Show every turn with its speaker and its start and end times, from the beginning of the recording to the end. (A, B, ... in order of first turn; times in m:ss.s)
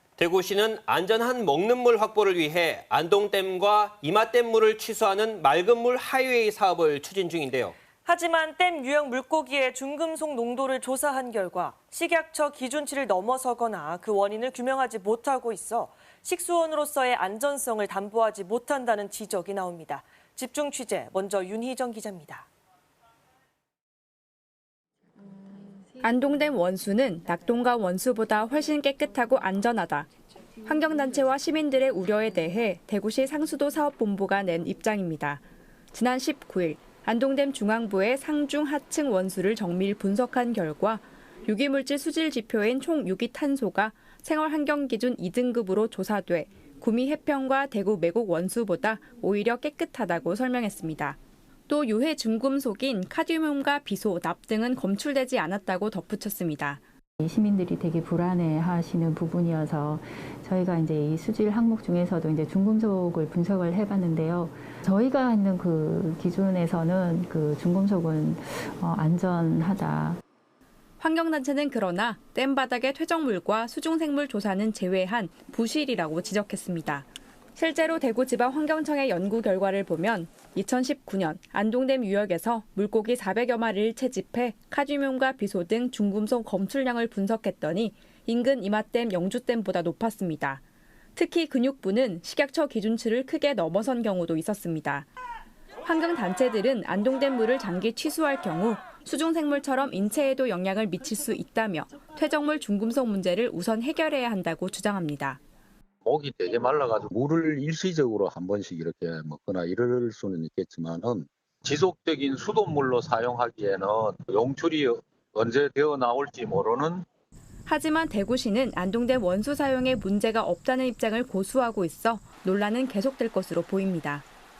0:00.2-0:07.7 A
0:08.0-0:22.5 B
0:26.0-0:30.1 C
0:30.6-0:56.8 C
0:57.2-1:10.2 D
1:11.0-1:30.6 C
1:31.1-1:35.1 C
1:35.8-1:45.4 C
1:46.0-1:57.0 E
1:57.6-2:04.2 C